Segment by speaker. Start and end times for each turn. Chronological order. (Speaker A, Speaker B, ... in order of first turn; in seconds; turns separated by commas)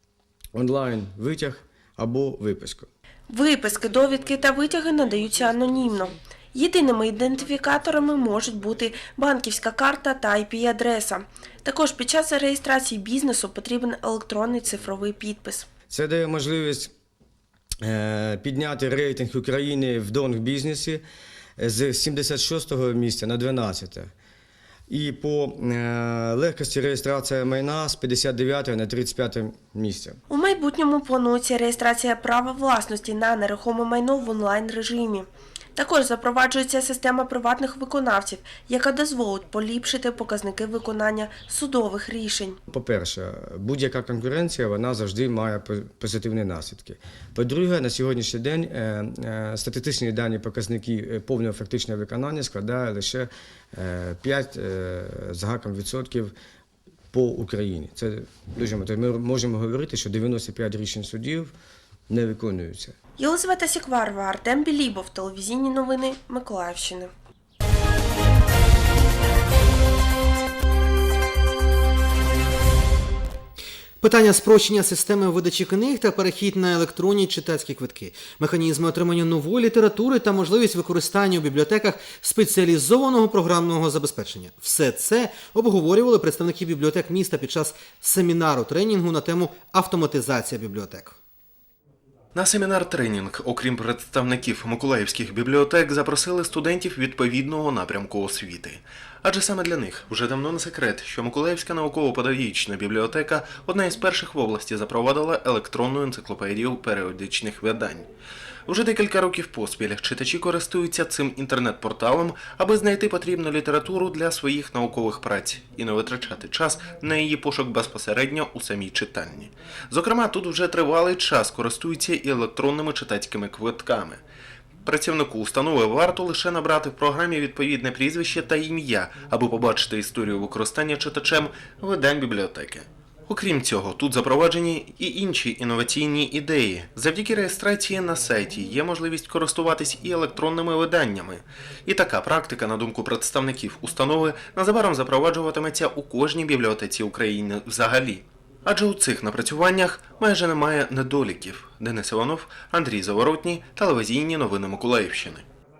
Speaker A: 0.5-2.9, Speaker B: 3.3-15.7, Speaker A: 15.9-16.9, Speaker A: 17.8-21.0, Speaker A: 21.6-24.1, Speaker A: 24.9-30.2, Speaker B: 30.3-42.6, Speaker A: 42.7-56.3, Speaker A: 57.1-61.5, Speaker A: 62.1-62.9, Speaker B: 63.2-67.1, Speaker C: 74.0-91.2, Speaker D: 92.3-108.1, Speaker D: 108.7-124.2, Speaker D: 124.8-155.4